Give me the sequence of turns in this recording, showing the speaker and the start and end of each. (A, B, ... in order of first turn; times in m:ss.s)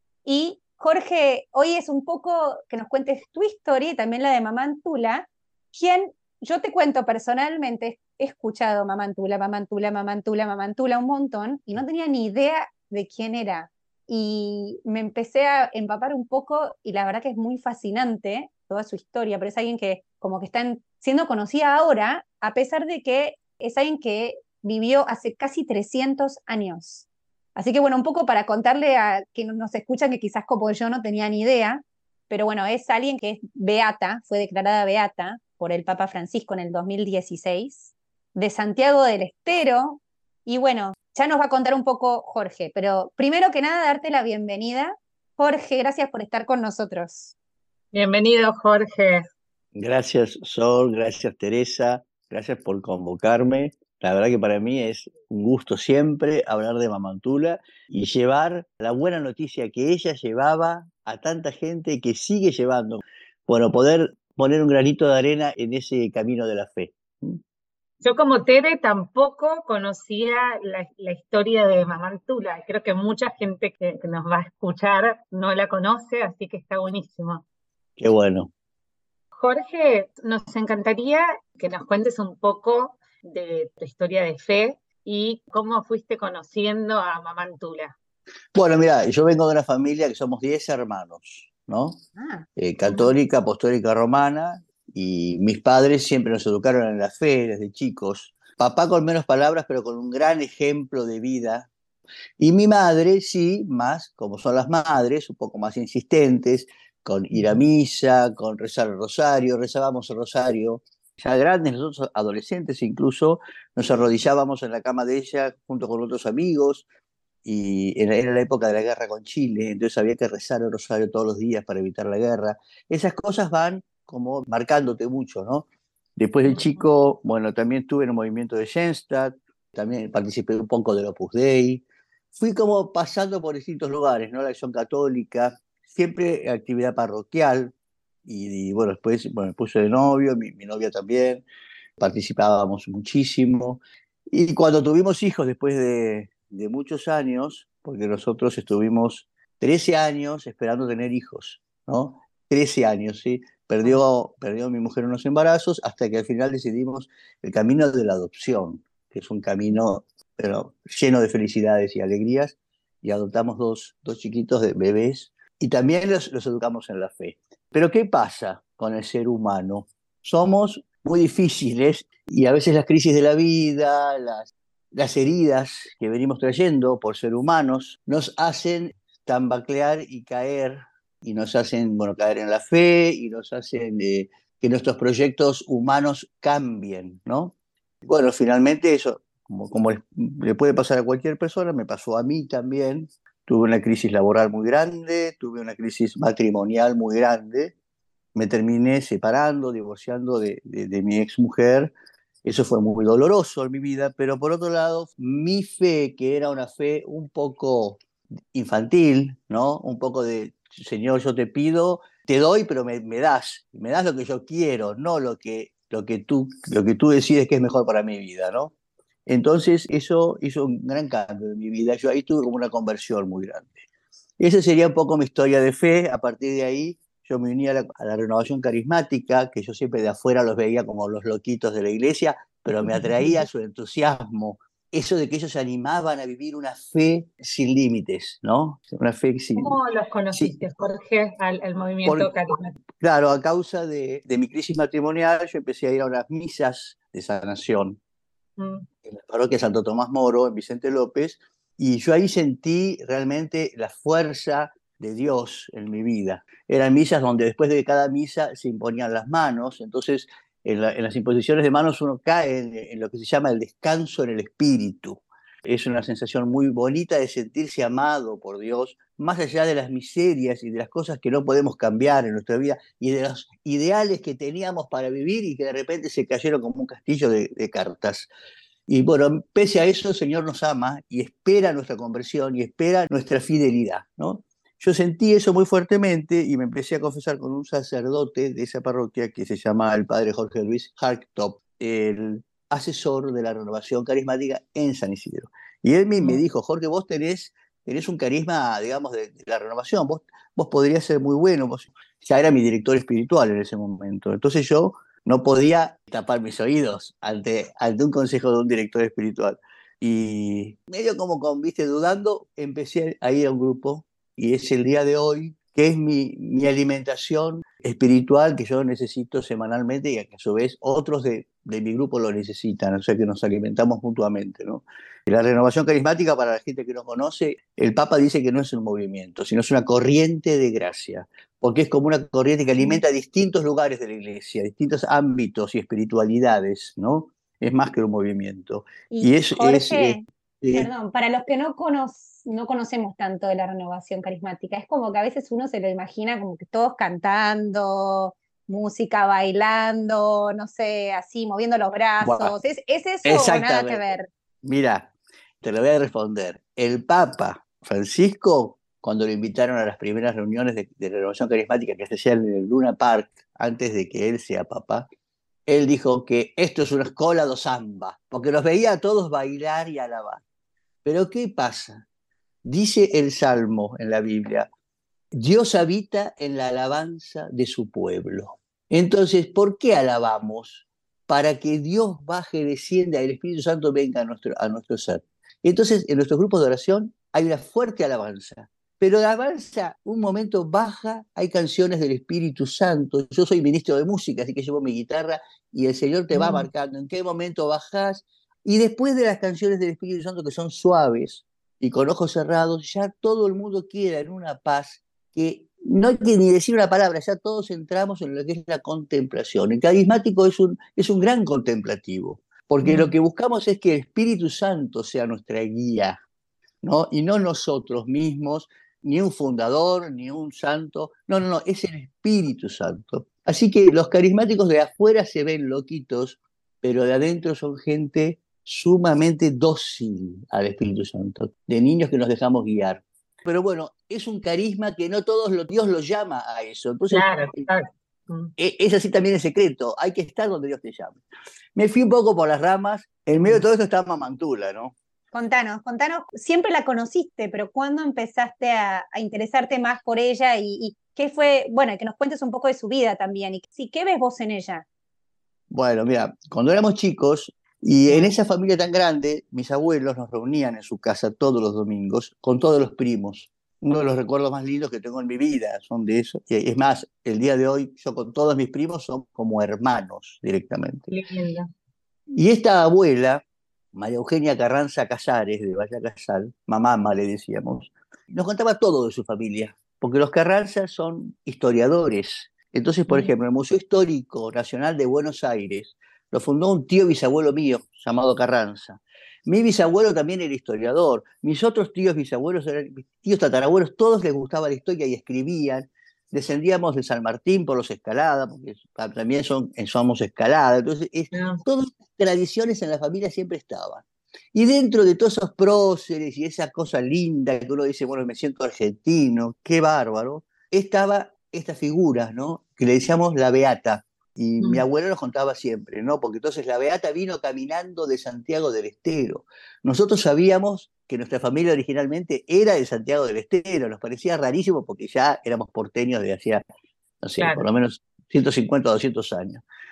0:00.2-0:47.3 A
0:47.9-0:49.3 B
0:49.7-1:07.4 C
1:08.0-1:17.4 B
1:18.0-1:18.5 C
1:19.4-1:28.0 B
1:28.5-1:32.0 C
1:32.2-1:32.4 A
1:32.6-1:41.7 C
1:42.4-1:56.8 C
1:57.4-2:17.7 C
2:18.2-2:21.4 C
2:22.0-3:17.7 C
3:18.3-3:21.9 C
3:22.4-3:28.0 C
3:28.5-3:38.7 C
3:39.3-3:43.8 C
3:44.4-3:59.8 C
3:52.8-3:53.4 B
3:59.6-4:02.7 B
4:02.0-4:02.3 C
4:03.0-4:08.0 C
4:08.6-4:08.8 B
4:09.0-4:38.3 C
4:38.9-5:40.9 C
5:39.1-5:40.2 A
5:40.7-5:54.3 A
5:52.2-5:52.5 C
5:53.2-5:54.0 C
5:54.6-5:55.1 C
5:55.6-6:05.1 C
6:05.7-6:10.4 C
6:11.0-6:12.0 C
6:12.6-6:14.7 C
6:15.3-6:56.2 C
6:36.3-6:36.7 B
6:52.8-6:53.1 B
6:56.8-7:17.7 C
7:17.1-7:18.5 B
7:18.6-7:21.2 C
7:21.7-7:24.9 C
7:25.3-7:34.8 A
7:35.7-7:51.1 C
7:51.1-7:51.7 B
7:52.3-8:46.6 C
8:21.3-8:21.6 B
8:47.2-8:49.6 C
8:47.4-8:47.7 B